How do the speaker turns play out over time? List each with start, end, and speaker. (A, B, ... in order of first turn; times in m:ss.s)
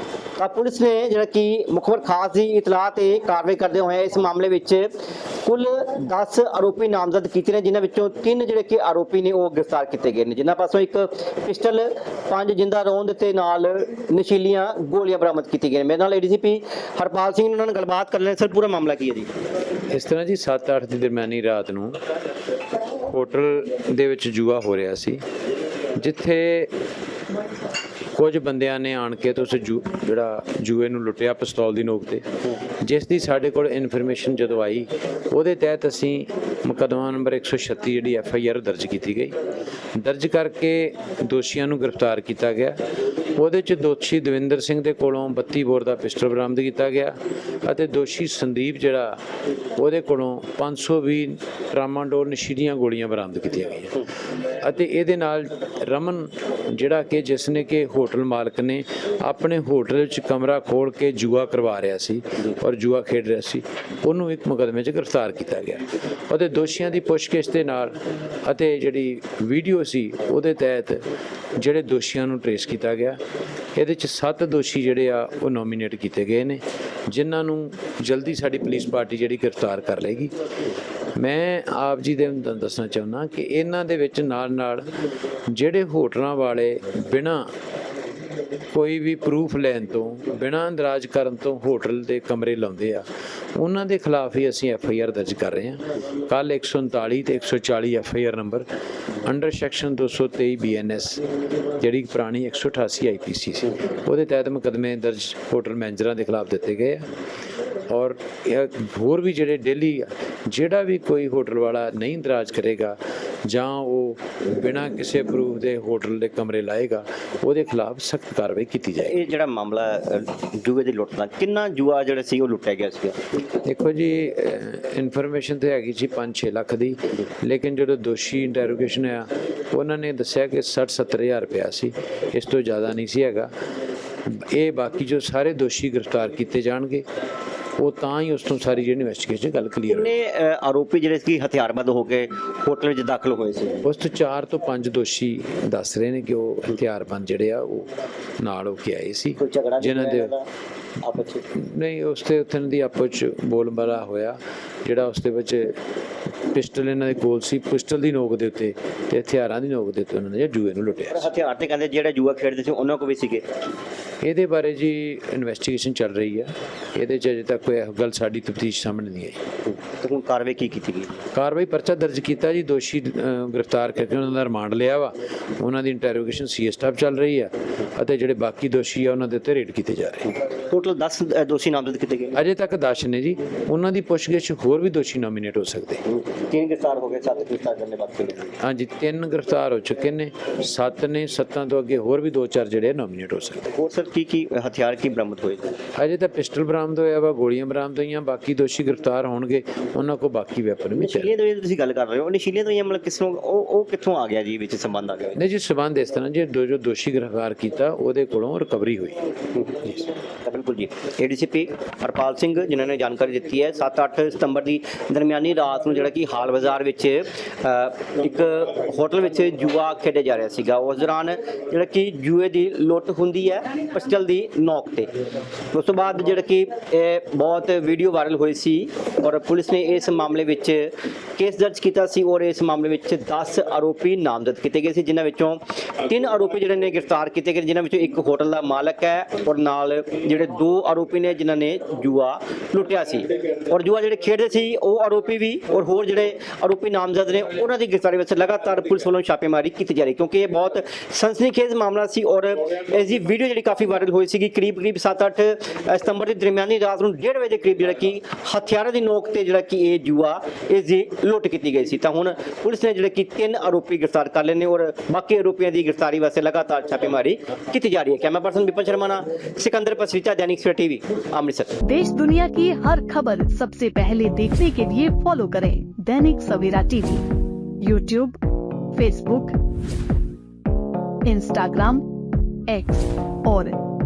0:00.4-0:04.9 A
0:05.4-0:19.3 A
0:19.9-0:22.0 B
0:23.0-0:25.2 B
0:26.0-0:26.7 B
0:28.2-0:39.3 B
0:40.0-0:42.8 B
0:43.4-0:49.2 B
0:49.8-1:11.0 B
1:11.6-1:13.2 B
1:13.8-1:20.3 B
1:21.2-1:24.9 B
1:25.5-1:27.5 B
1:28.7-1:38.6 B
1:39.2-1:41.2 B
1:41.8-1:47.1 B
1:47.9-1:59.2 B
1:59.0-2:03.2 A
2:03.6-2:13.5 B
2:14.2-2:17.0 B
2:17.8-2:20.1 B
2:19.9-2:23.8 A
2:23.8-2:27.9 B
2:28.4-2:30.3 B
2:29.4-2:30.4 A
2:31.0-2:31.4 A
2:31.5-2:35.8 B
2:36.5-2:41.3 B
2:41.1-2:43.4 A
2:44.2-2:49.4 B
2:49.8-2:51.2 A
2:51.3-3:00.3 B
3:00.5-3:02.4 A
3:02.3-3:06.0 B
3:06.1-3:08.5 A
3:08.6-3:13.7 B
3:13.7-3:15.7 A
3:16.0-3:21.3 B
3:21.0-3:25.4 A
3:25.4-3:29.2 B
3:29.6-3:45.1 A
3:45.7-4:31.8 A
4:31.8-4:37.2 C
4:37.8-4:38.4 C
4:38.9-4:39.5 C
4:41.2-4:42.0 C
4:42.7-4:43.8 C